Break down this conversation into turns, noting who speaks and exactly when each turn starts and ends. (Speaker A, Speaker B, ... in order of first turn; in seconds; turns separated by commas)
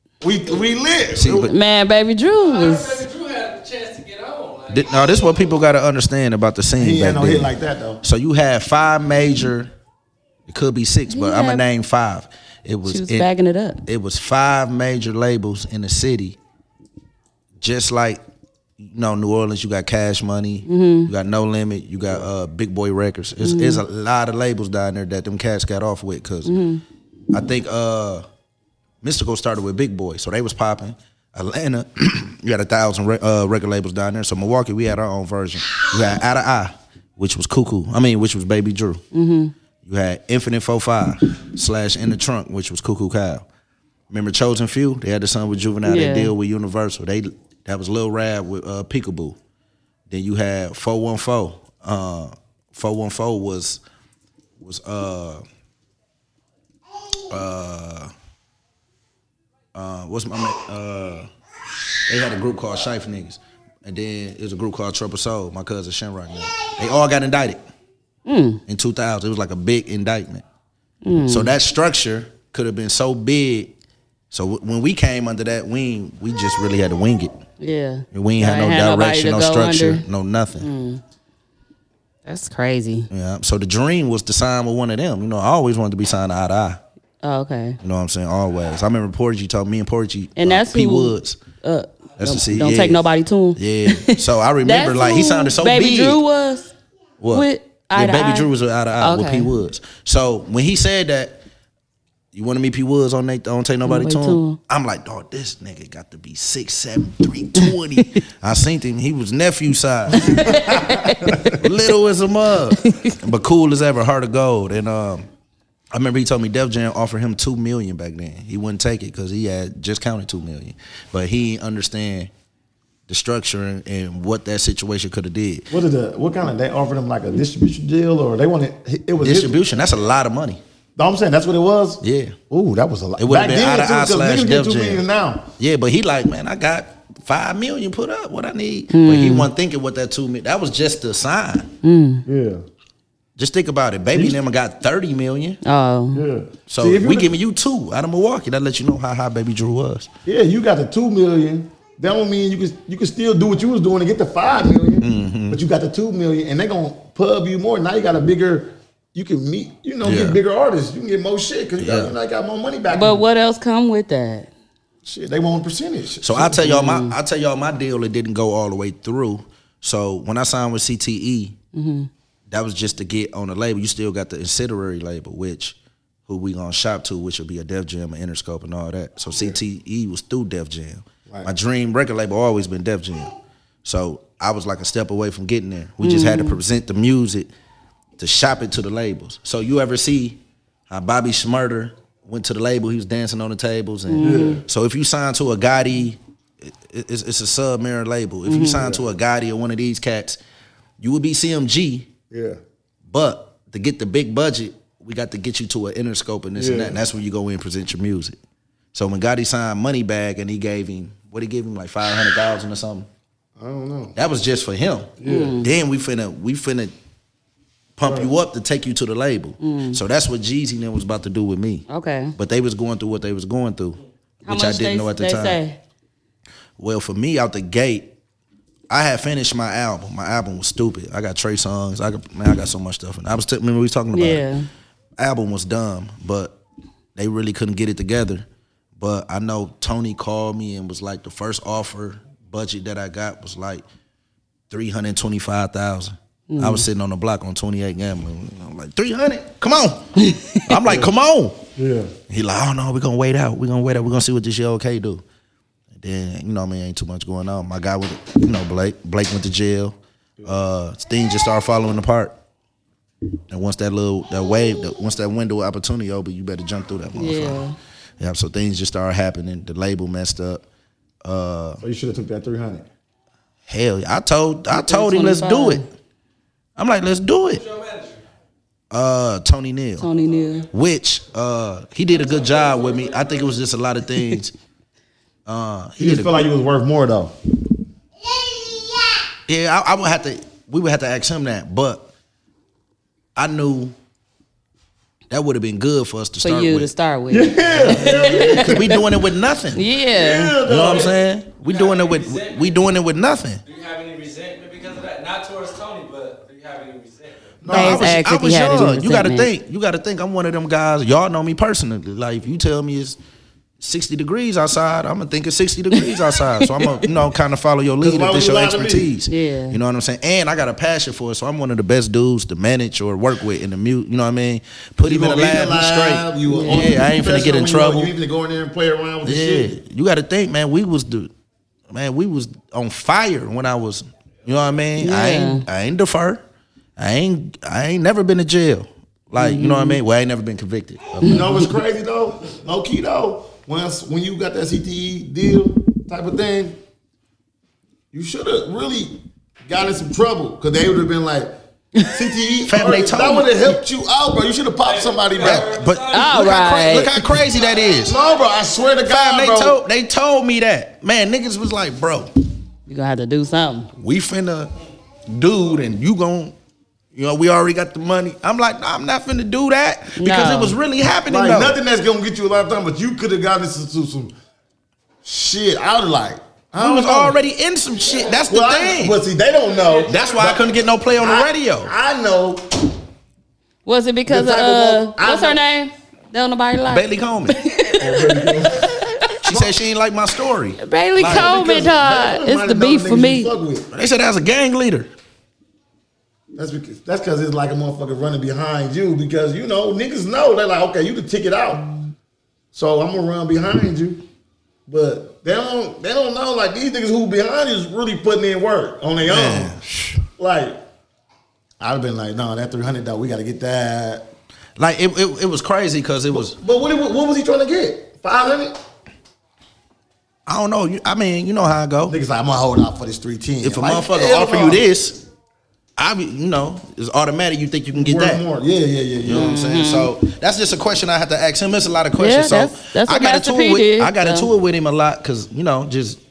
Speaker A: 0.2-1.5, Speaker B: 1.2-1.5, Speaker C: 1.4-3.0, Speaker D: 2.4-5.5, Speaker B: 4.7-7.5, Speaker A: 6.8-8.0, Speaker B: 8.0-9.7, Speaker B: 10.5-13.3, Speaker C: 11.1-11.6, Speaker C: 12.8-13.8, Speaker B: 13.9-16.4, Speaker B: 17.6-18.2, Speaker B: 18.8-26.5, Speaker C: 20.7-21.1, Speaker C: 23.4-23.8, Speaker C: 26.5-26.8, Speaker B: 27.3-28.2, Speaker B: 29.0-39.0, Speaker C: 39.1-39.5, Speaker B: 39.9-43.5, Speaker B: 44.1-49.4, Speaker C: 45.8-46.3, Speaker B: 50.1-53.8, Speaker B: 54.6-55.4, Speaker B: 57.3-58.1, Speaker B: 59.7-61.3, Speaker B: 62.1-67.6, Speaker C: 68.3-68.6, Speaker B: 68.7-70.4, Speaker C: 71.0-71.5, Speaker B: 71.3-73.8, Speaker B: 74.3-77.3, Speaker C: 77.6-80.0, Speaker B: 78.1-80.7, Speaker C: 80.6-81.0, Speaker C: 82.3-83.1, Speaker B: 83.1-86.8, Speaker C: 87.2-87.8, Speaker B: 87.8-91.4, Speaker C: 90.4-96.7, Speaker B: 92.2-96.2, Speaker B: 97.2-101.4, Speaker C: 97.3-99.5, Speaker B: 102.3-110.8, Speaker C: 103.8-104.6, Speaker C: 110.2-111.6, Speaker A: 110.3-111.5, Speaker B: 111.5-115.3, Speaker C: 112.8-113.2, Speaker B: 115.9-122.3, Speaker B: 123.1-125.7, Speaker A: 125.7-129.6, Speaker B: 129.2-130.6, Speaker A: 131.0-135.5, Speaker B: 132.0-132.4, Speaker B: 133.2-135.0, Speaker B: 135.6-141.7, Speaker C: 138.9-139.5, Speaker C: 141.8-142.2, Speaker A: 142.3-142.6, Speaker B: 143.4-145.6, Speaker A: 144.1-144.4, Speaker C: 145.7-146.2, Speaker A: 146.1-147.3, Speaker B: 146.7-150.1, Speaker A: 150.3-163.2, Speaker B: 155.0-155.6, Speaker B: 160.0-160.4, Speaker B: 161.8-162.1, Speaker C: 162.9-164.5, Speaker A: 165.0-166.7, Speaker B: 166.2-171.6, Speaker C: 166.6-167.2, Speaker C: 171.7-172.1, Speaker B: 172.5-183.3, Speaker B: 183.8-187.5, Speaker C: 186.0-186.6, Speaker B: 188.2-200.4, Speaker C: 194.1-194.6, Speaker A: 194.2-194.6, Speaker C: 198.5-198.8, Speaker A: 198.8-199.0, Speaker B: 201.0-202.1, Speaker A: 202.3-202.6, Speaker B: 203.1-208.4, Speaker A: 206.6-207.0, Speaker B: 208.9-213.1, Speaker A: 213.6-214.2, Speaker B: 214.2-216.9, Speaker A: 215.2-215.6, Speaker C: 215.2-215.7, Speaker B: 218.0-221.8, Speaker A: 218.0-218.3, Speaker C: 219.6-220.0, Speaker C: 221.9-222.3, Speaker B: 222.4-225.6, Speaker C: 224.4-225.8, Speaker B: 226.8-228.1, Speaker B: 228.9-234.4, Speaker C: 234.1-234.7, Speaker B: 235.2-236.6, Speaker B: 237.2-238.4, Speaker B: 239.0-243.8, Speaker B: 244.7-250.1, Speaker C: 246.5-246.9, Speaker C: 250.2-250.6, Speaker B: 250.7-251.6, Speaker A: 251.8-252.1, Speaker B: 252.3-255.2, Speaker B: 256.0-262.4, Speaker B: 263.5-267.6, Speaker C: 267.2-267.8, Speaker B: 268.2-270.6, Speaker B: 271.2-271.8, Speaker A: 271.8-272.9, Speaker B: 273.7-275.8, Speaker C: 274.7-275.9, Speaker B: 276.8-277.6, Speaker D: 277.6-278.2, Speaker B: 278.9-280.1, Speaker C: 280.0-280.7, Speaker B: 280.7-284.5, Speaker D: 282.2-283.6, Speaker B: 285.5-286.4, Speaker A: 286.0-287.4, Speaker B: 289.5-292.1, Speaker B: 293.4-293.9, Speaker B: 295.3-296.9, Speaker C: 296.4-299.0, Speaker A: 297.3-299.0, Speaker B: 298.3-299.9, Speaker C: 299.7-300.6, Speaker A: 300.0-301.2, Speaker B: 300.6-303.6, Speaker D: 301.6-302.8, Speaker D: 303.6-307.6, Speaker A: 307.6-308.2, Speaker B: 307.7-313.2, Speaker C: 307.7-309.5, Speaker B: 313.8-328.1, Speaker C: 316.1-317.0, Speaker A: 318.0-319.1, Speaker C: 319.3-319.8, Speaker A: 325.0-329.7, Speaker C: 326.5-326.9, Speaker B: 329.2-331.3, Speaker B: 331.9-336.4, Speaker C: 335.0-335.6, Speaker B: 337.0-341.6, Speaker C: 339.4-340.0, Speaker A: 341.2-346.8, Speaker A: 348.1-355.8, Speaker B: 352.7-353.8, Speaker D: 354.8-356.5, Speaker B: 355.4-358.1, Speaker C: 356.1-357.2, Speaker D: 357.4-358.3, Speaker A: 358.0-359.8, Speaker B: 359.1-362.3, Speaker C: 362.9-363.9, Speaker B: 364.0-364.7, Speaker B: 365.3-366.5, Speaker B: 367.1-371.8, Speaker C: 370.2-370.8, Speaker A: 371.3-374.3, Speaker A: 375.2-377.4, Speaker B: 376.8-379.2, Speaker A: 378.5-382.9, Speaker D: 379.7-380.3, Speaker B: 380.1-381.9, Speaker C: 383.9-389.4, Speaker A: 384.3-385.6, Speaker B: 386.9-387.6, Speaker A: 388.0-388.9, Speaker B: 389.4-391.5, Speaker A: 389.5-389.7, Speaker C: 390.8-393.5, Speaker A: 391.2-393.9, Speaker B: 393.9-395.1, Speaker A: 396.6-401.9, Speaker A: 402.7-404.2, Speaker A: 404.9-409.8, Speaker B: 409.2-410.2, Speaker A: 410.4-410.8, Speaker A: 411.8-414.3, Speaker B: 414.8-416.6, Speaker A: 416.3-418.8, Speaker B: 420.5-422.2, Speaker A: 422.1-424.9, Speaker B: 423.6-425.2, Speaker B: 426.0-428.4, Speaker A: 427.9-429.6, Speaker B: 429.2-436.2, Speaker C: 429.3-430.1, Speaker C: 432.2-434.5